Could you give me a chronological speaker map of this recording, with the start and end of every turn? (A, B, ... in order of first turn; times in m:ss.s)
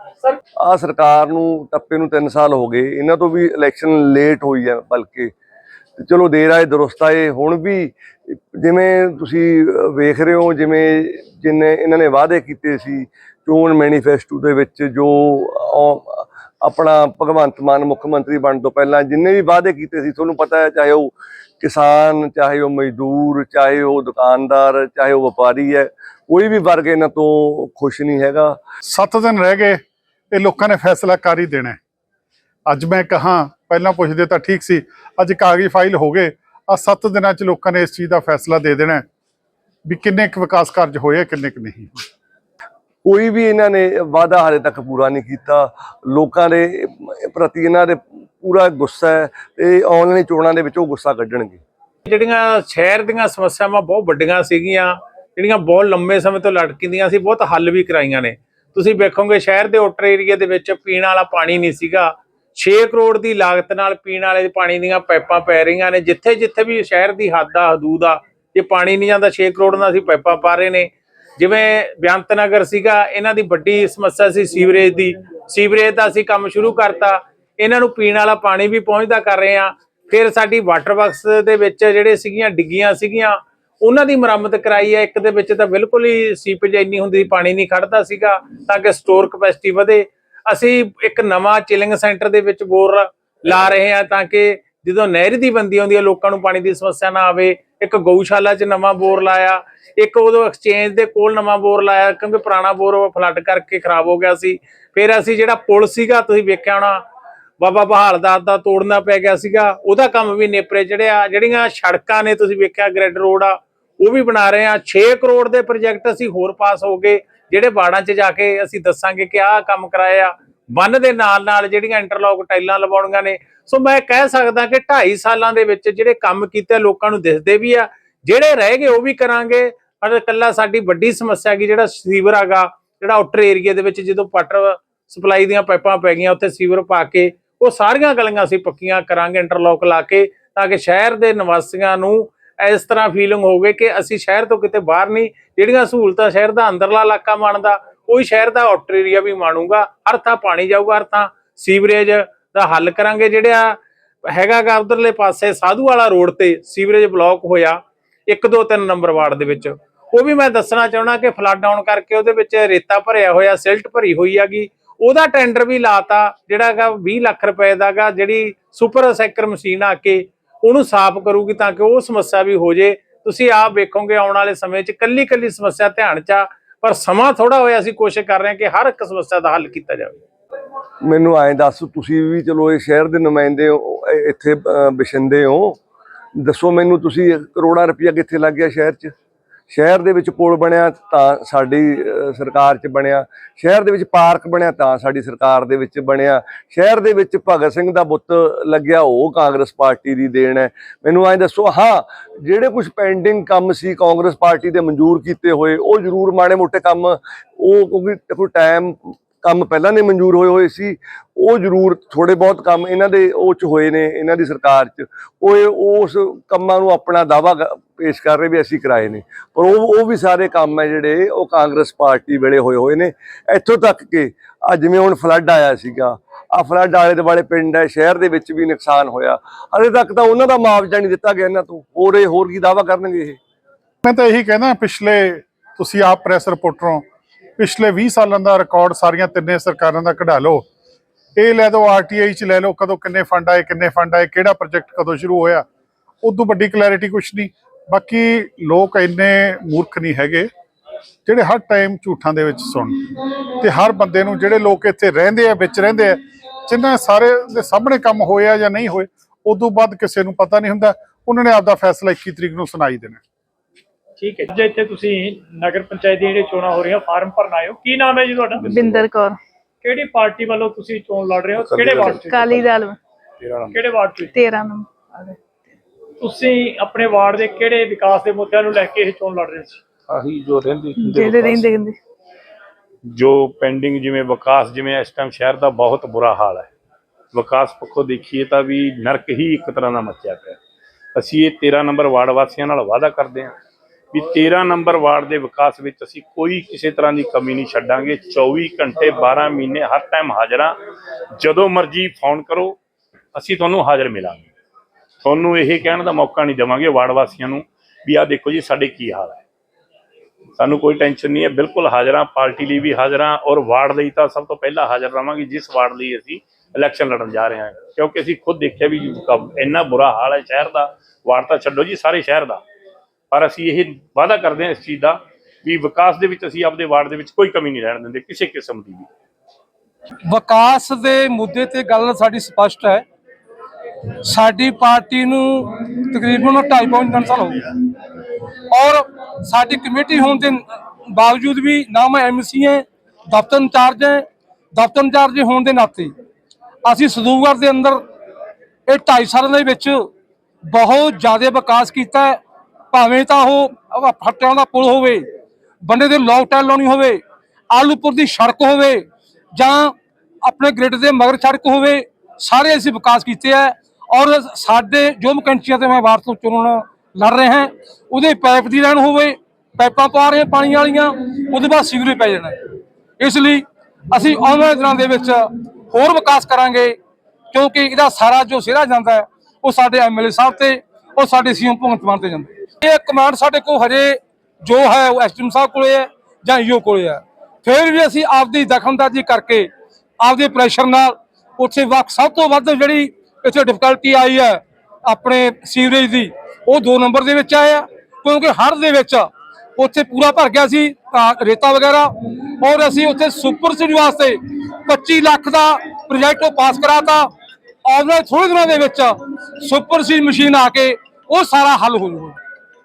0:00.6-0:05.3 A
0:06.0-0:28.6 A
0:28.9-0:31.8 B
0:32.7-0:39.0 B
0:39.8-0:42.0 B
0:43.0-0:51.6 A
0:52.0-1:47.0 C
1:47.6-2:33.8 C
2:34.3-3:00.2 C
3:01.0-3:05.8 A
3:06.4-3:09.1 A
3:09.7-3:53.4 A
3:54.0-3:57.0 B
3:57.6-4:00.6 B
4:01.4-4:05.6 B
4:06.2-4:10.5 B
4:11.2-4:12.9 B
4:13.6-4:23.2 B
4:24.2-4:28.7 D
4:28.6-4:29.1 E
4:28.7-4:29.4 F
4:29.8-4:32.6 D
4:31.6-4:32.7 E
4:32.3-4:33.0 F
4:33.4-4:33.8 E
4:33.7-4:34.4 D
4:34.3-4:35.4 F
4:36.2-4:39.8 D
4:40.1-4:41.7 E
4:41.0-4:42.0 F
4:43.1-4:46.7 E
4:47.3-4:50.6 E
4:51.2-4:53.5 E
4:54.1-5:00.8 E
5:01.4-5:02.8 E
5:03.3-5:04.5 E
5:05.2-5:09.4 E
5:10.6-5:22.6 E
5:23.3-5:29.1 E
5:30.3-5:33.0 G
5:34.2-5:37.7 G
5:38.7-5:46.1 G
5:46.8-5:48.0 G
5:48.9-5:50.1 G
5:50.6-5:52.4 G
5:52.9-5:55.2 G
5:55.8-6:12.6 G
6:13.2-6:17.0 G
6:17.5-6:29.7 G
6:30.2-6:47.3 G
6:47.8-6:52.4 G